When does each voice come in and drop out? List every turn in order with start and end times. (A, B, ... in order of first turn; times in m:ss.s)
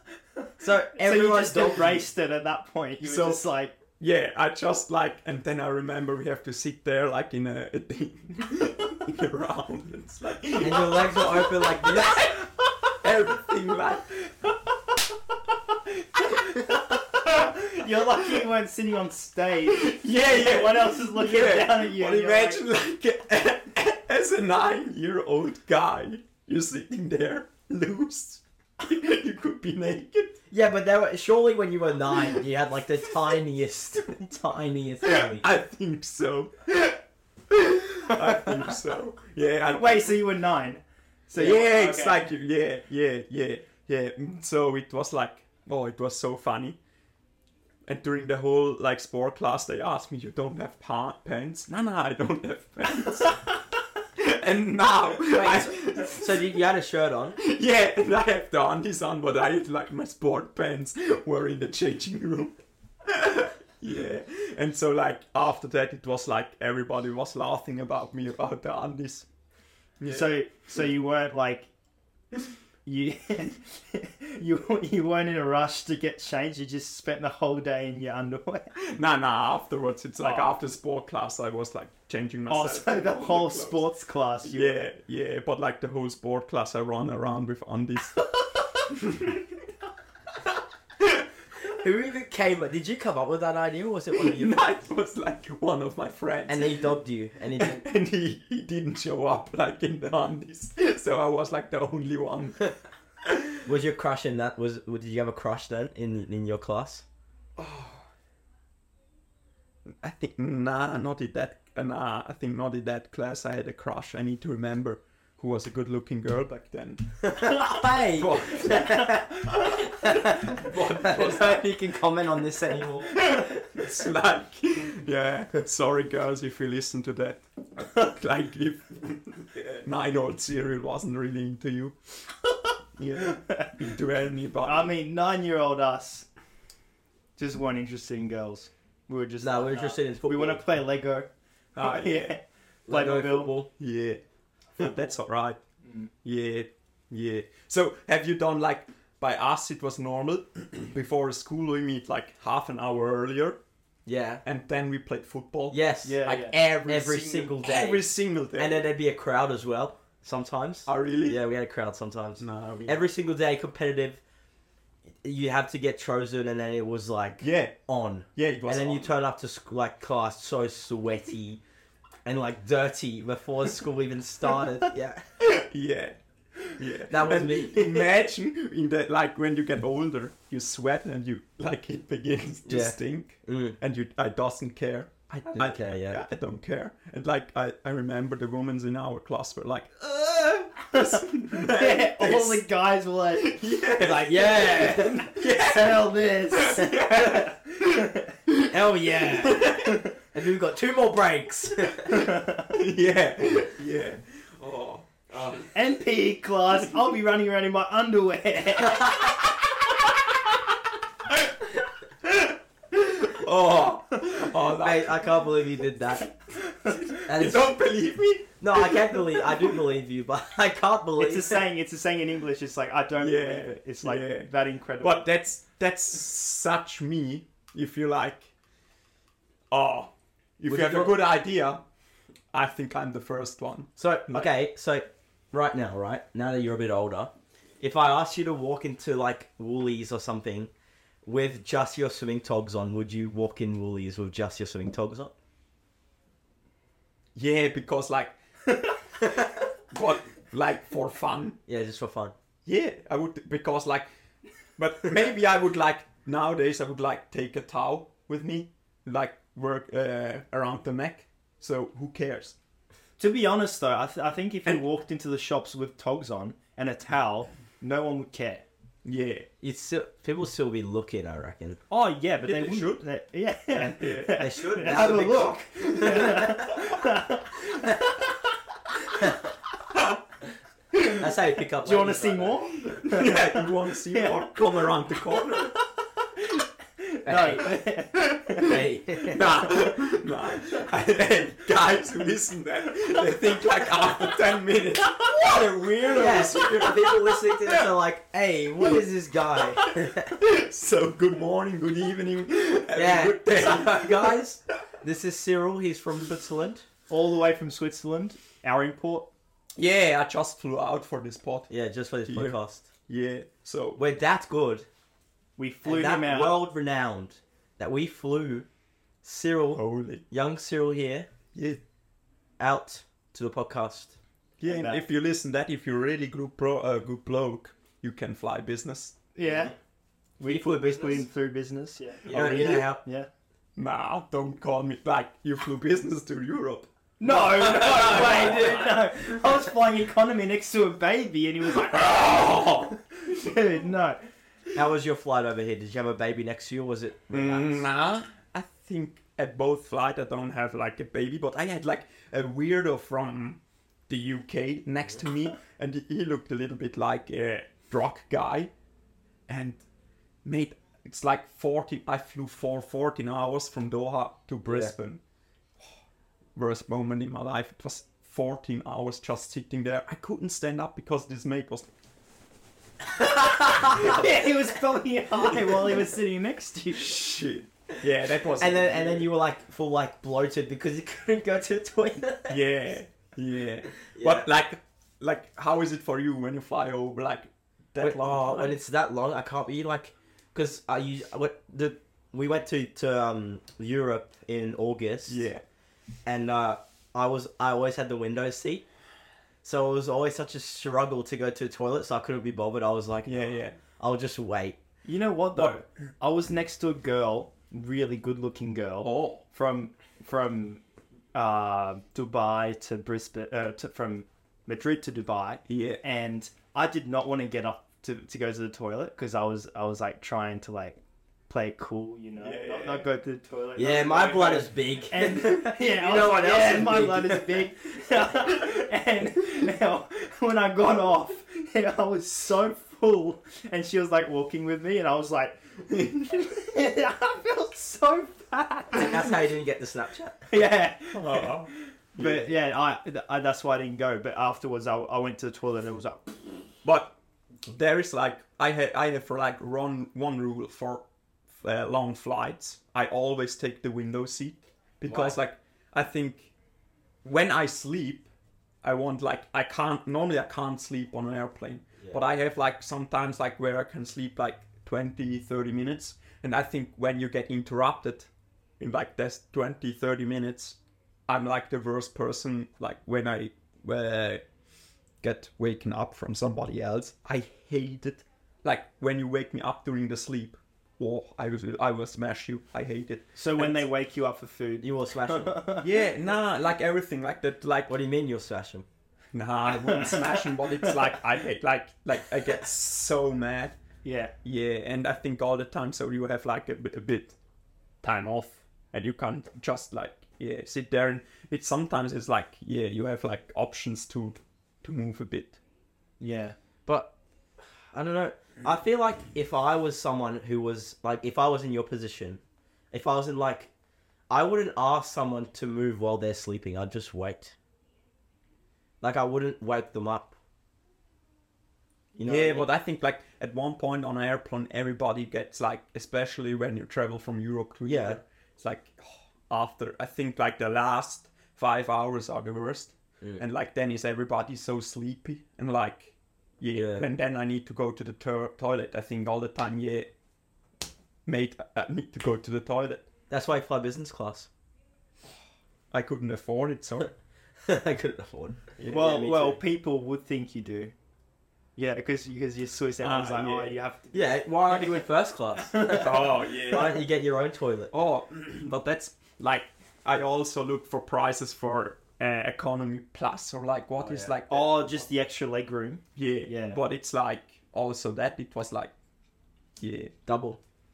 0:00.6-0:02.0 A
0:01.0-0:03.7 B
0:03.0-0:03.4 C
0:04.0-0:14.5 C
0:10.6-0:12.3 A
0:16.2-0:18.4 C
0:16.4-0:22.6 B
0:19.7-0:30.4 C
0:30.5-0:35.5 A
0:35.0-0:40.1 C
0:39.7-0:42.3 B
0:41.3-0:46.8 C
0:47.9-0:53.6 C
0:54.2-0:56.6 C
0:55.2-0:57.4 A
0:57.4-1:09.3 C
1:10.0-1:10.3 C
1:10.1-1:11.7 B
1:12.8-1:18.7 B
1:18.8-1:23.8 C
1:20.2-1:20.6 B
1:22.5-1:24.8 B
1:24.4-1:29.4 C
1:31.6-1:34.6 A
1:34.1-1:36.9 C
1:36.5-1:37.8 A
1:37.5-1:43.6 C
1:43.6-1:47.0 A
1:47.6-1:48.0 C
1:50.0-2:01.6 C
1:57.2-2:03.2 A
2:03.1-2:12.0 C
2:13.0-2:14.9 C
2:13.2-2:13.7 B
2:14.6-2:16.3 B
2:17.4-2:23.6 B
2:19.4-2:20.6 A
2:21.8-2:22.4 C
2:22.9-2:23.7 A
2:23.8-2:24.2 C
2:24.8-2:25.6 C
2:26.2-2:33.6 C
2:34.1-2:34.4 A
2:34.4-2:38.9 C
2:35.7-2:38.1 A
2:36.0-2:36.6 B
2:38.6-2:44.2 A
2:40.8-2:41.4 C
2:42.4-2:43.1 C
2:45.2-2:51.6 A
2:47.4-2:47.8 C
2:48.3-2:49.1 C
2:52.2-2:55.2 A
2:55.4-2:56.2 C
2:56.7-3:12.6 C
2:57.1-2:58.1 A
3:02.7-3:03.8 A
3:05.5-3:06.2 A
3:10.9-3:13.6 B
3:13.4-3:20.1 C
3:14.0-3:15.4 A
3:15.6-3:18.2 B
3:18.7-3:22.2 A
3:22.1-3:25.7 C
3:22.3-3:22.6 B
3:25.3-3:25.6 A
3:25.7-3:29.1 B
3:29.0-3:29.3 A
3:29.3-3:30.7 C
3:32.4-3:35.3 C
3:34.8-3:36.3 A
3:36.8-3:39.7 C
3:37.2-3:37.7 A
3:38.6-3:41.6 A
3:41.2-3:45.2 B
3:43.2-3:48.5 C
3:49.7-3:51.8 C
3:50.7-3:51.1 A
3:52.5-3:54.5 C
3:54.0-4:00.7 A
4:01.2-4:05.3 A
4:07.4-4:08.3 C
4:09.9-4:11.6 C
4:11.7-4:12.3 A
4:12.6-4:14.1 C
4:14.8-4:22.6 C
4:23.2-4:28.6 B
4:29.0-4:29.5 C
4:29.6-4:31.8 A
4:31.9-4:37.9 B
4:32.4-4:33.0 C
4:33.7-4:37.0 C
4:34.4-4:36.7 A
4:41.2-4:42.7 A
4:41.8-4:44.9 B
4:42.9-4:45.8 C
4:46.4-4:49.6 B
4:47.2-4:47.7 A
4:48.2-4:48.7 C
4:48.6-4:49.7 A
4:49.3-4:57.9 C
4:56.1-5:00.3 A
4:59.8-5:04.4 C
5:02.9-5:06.9 A
5:07.1-5:09.3 B
5:09.8-5:11.7 C
5:11.7-5:12.9 A
5:12.3-5:14.0 C
5:14.0-5:14.9 A
5:15.6-5:16.6 B
5:15.8-5:18.7 A
5:19.2-5:21.3 A
5:19.7-5:20.2 C
5:22.6-5:24.2 A
5:24.6-5:29.2 C
5:24.6-5:25.0 B
5:29.3-5:29.7 B
5:30.4-5:33.3 B
5:30.4-5:31.2 A
5:32.3-5:33.0 A
5:32.3-5:32.9 C
5:33.8-5:39.2 C
5:37.2-5:44.2 B
5:37.3-5:39.1 A
5:41.7-5:43.0 C
5:44.7-5:47.9 A
5:47.3-5:58.7 C
5:59.5-5:59.8 C
6:00.4-6:05.2 C
6:04.7-6:04.9 A
6:06.6-6:11.9 C
6:13.2-6:14.2 A
6:13.7-6:17.2 B
6:13.8-6:14.2 C
6:16.9-6:19.3 C
6:18.5-6:22.6 A
6:22.5-6:28.8 C
6:24.0-6:24.5 A
6:28.0-6:35.4 A
6:35.3-6:35.6 C
6:36.2-6:38.8 A
6:39.6-6:43.4 A
6:43.2-6:43.8 C
6:44.0-6:44.8 A
6:45.0-6:50.8 B
6:45.6-6:45.8 C
6:49.0-6:49.4 C
6:51.3-7:19.4 B
6:55.7-6:56.0 C
7:02.4-7:03.1 C
7:03.7-7:07.7 A
7:18.9-7:20.4 A
7:20.5-7:26.4 B
7:21.1-7:22.5 C
7:26.8-7:27.2 C
7:27.7-7:31.0 C
7:31.6-7:36.5 C
7:35.0-7:35.4 A
7:37.2-7:38.2 C
7:38.8-7:54.4 C
7:55.2-8:03.8 C
8:03.4-8:05.9 B
8:04.8-8:05.6 A
8:05.8-8:07.9 C
8:07.9-8:08.9 A
8:09.3-8:13.8 C
8:09.8-8:11.0 B
8:14.0-8:14.3 B
8:14.4-8:17.4 C
8:18.0-8:25.6 C
8:26.2-8:26.6 B
8:26.8-8:27.2 A
8:27.8-8:33.7 A
8:34.3-8:37.6 A
8:39.0-8:40.4 A
8:42.1-8:42.6 A
8:42.2-9:00.1 C
8:47.9-8:48.2 A
8:56.7-8:57.1 A
9:01.2-9:03.1 C
9:03.3-9:04.5 A
9:05.9-9:07.1 C
9:07.6-9:09.6 A
9:08.8-9:09.0 C
9:08.9-9:10.9 B
9:11.8-9:14.9 B
9:13.0-9:13.8 C
9:14.1-9:17.9 A
9:15.7-9:16.1 B
9:15.9-9:17.0 C
9:17.9-9:25.0 C
9:24.0-9:24.3 A
9:24.5-9:26.8 B
9:26.2-9:28.9 C
9:29.8-9:30.1 C
9:30.2-9:30.6 A